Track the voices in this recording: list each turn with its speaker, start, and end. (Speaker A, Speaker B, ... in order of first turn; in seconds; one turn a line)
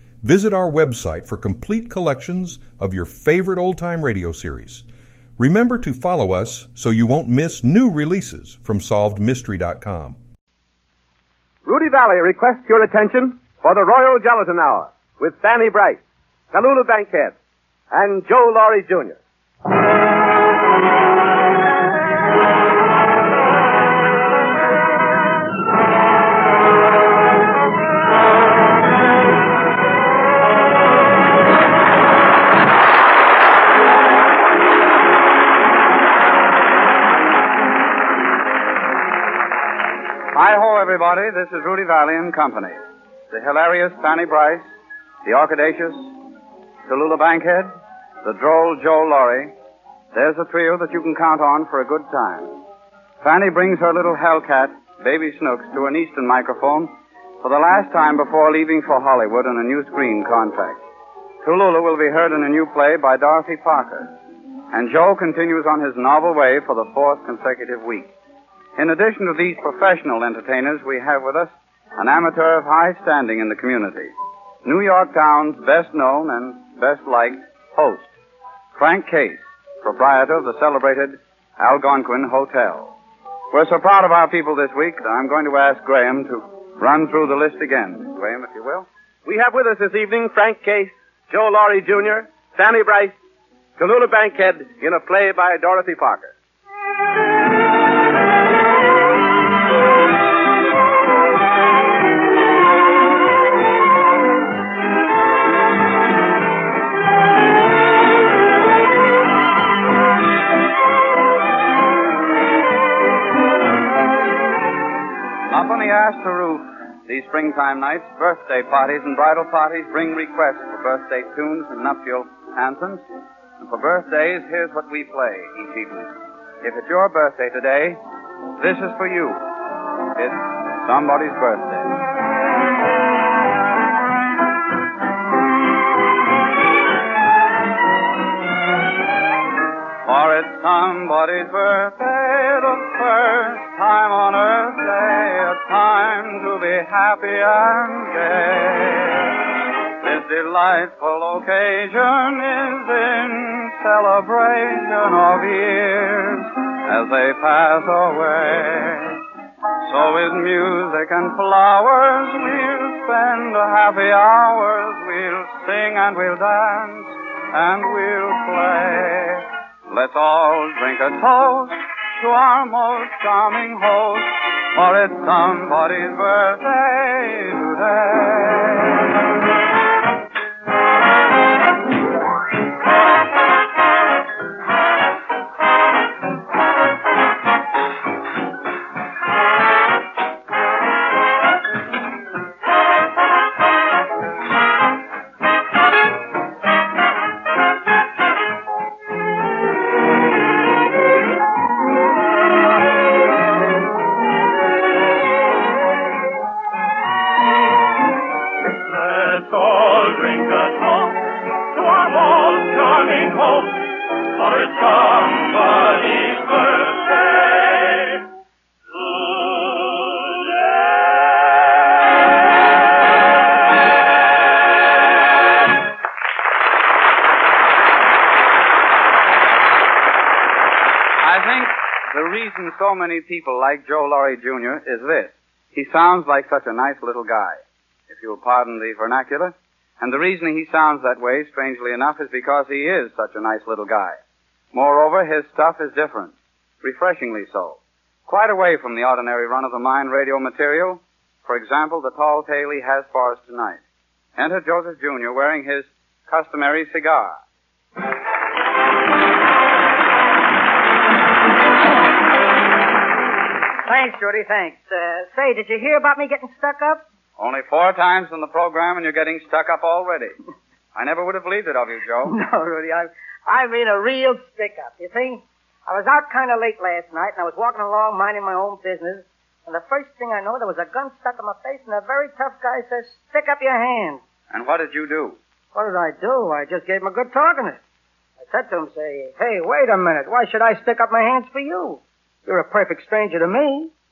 Speaker A: 0.2-4.8
Speaker A: 5.4-10.2
Speaker B: 11.7-16.0
Speaker B: 16.5-17.4
Speaker B: 17.9-19.2
Speaker C: 40.3-42.8
Speaker C: 43.3-44.6
Speaker C: 45.2-46.1
Speaker C: 46.9-47.7
Speaker C: 48.2-49.5
Speaker C: 50.1-52.6
Speaker C: 53.2-60.8
Speaker C: 61.4-64.1
Speaker C: 64.7-68.1
Speaker C: 68.8-74.1
Speaker C: 74.6-78.1
Speaker C: 78.8-83.0
Speaker C: 83.5-88.9
Speaker B: 89.3-93.2
Speaker B: 93.8-96.3
Speaker C: 115.5-123.0
Speaker C: 123.6-128.0
Speaker C: 128.6-129.4
Speaker C: 130.2-132.0
Speaker C: 140.1-149.3
Speaker C: 150.0-159.2
Speaker C: 159.8-179.0
Speaker D: 208.9-218.2
Speaker D: 219.0-220.2
Speaker C: 231.2-244.2
Speaker C: 244.7-253.8
Speaker C: 254.4-257.4
Speaker E: 263.9-267.0
Speaker C: 267.4-270.4
Speaker C: 270.9-272.4
Speaker E: 272.3-284.2
Speaker C: 284.5-285.4
Speaker E: 285.7-287.8
Speaker E: 288.5-293.9